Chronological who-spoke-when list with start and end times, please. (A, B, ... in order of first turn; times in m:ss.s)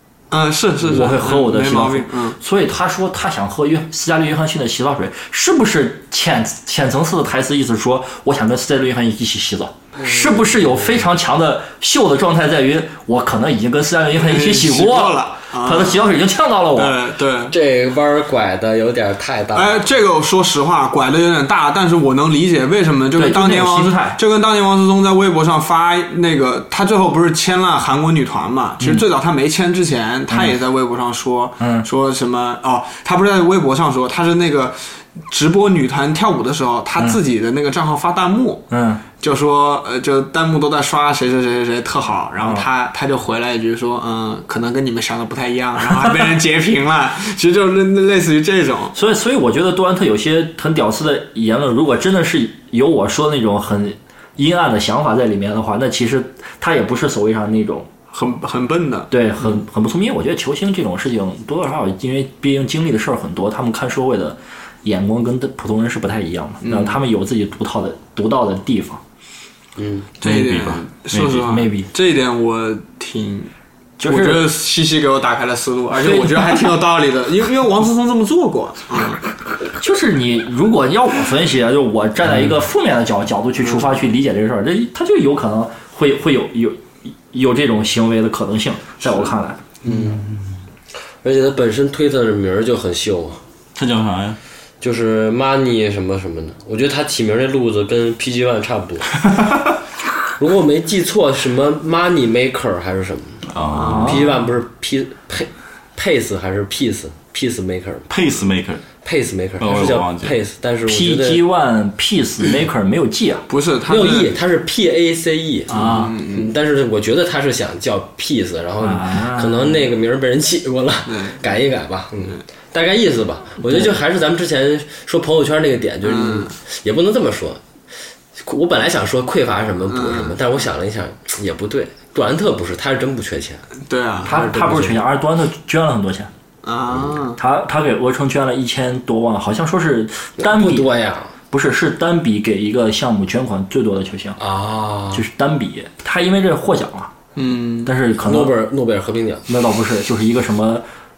0:00.3-0:02.4 A
0:00.8-0:17.0 B
0:14.2-0:16.0 A
0:16.7-0:17.5 A
0:17.5-0:19.8 C
0:19.5-0:38.6 A
0:23.1-0:24.2 B
0:30.3-0:30.6 B
0:31.6-0:31.9 B
0:38.7-0:39.0 B
0:39.2-0:49.0 A
0:42.4-0:42.6 B
0:48.9-0:57.9 B
0:58.1-0:59.1 A
0:59.1-1:09.0 B
1:06.6-1:07.0 A
1:09.8-1:10.1 C
1:10.2-1:13.5 A
1:10.2-1:11.6 D
1:11.4-1:11.9 B
1:14.0-1:14.5 B
1:14.0-1:19.2 A
1:15.9-1:16.7 B
1:19.7-1:29.6 B
1:29.8-1:30.2 C
1:31.2-1:33.4 C
1:33.7-1:34.4 D
1:34.8-1:39.1 C
1:40.4-1:48.1 C
1:43.5-1:44.2 D
1:43.7-1:44.2 A
1:43.8-1:44.4 B
1:48.1-1:48.8 D
1:49.0-1:51.4 C
1:49.6-1:50.3 D
1:50.8-1:53.4 B
1:53.5-1:54.4 A
1:53.9-2:07.6 C
1:55.7-1:56.2 B
1:55.7-1:56.5 A
1:58.8-1:59.8 B
2:01.1-2:01.4 A
2:06.0-2:06.5 A
2:08.4-2:13.6 C
2:09.9-2:10.4 A
2:13.9-2:14.4 A
2:14.2-2:15.0 C
2:14.2-2:16.3 B
2:16.6-2:17.4 A
2:17.4-2:20.9 B
2:20.4-2:21.3 C
2:21.5-2:24.4 B
2:24.4-2:25.2 C
2:25.1-2:27.2 B
2:27.4-2:27.9 A
2:27.8-2:28.6 B
2:28.2-2:29.4 C
2:29.5-2:30.8 B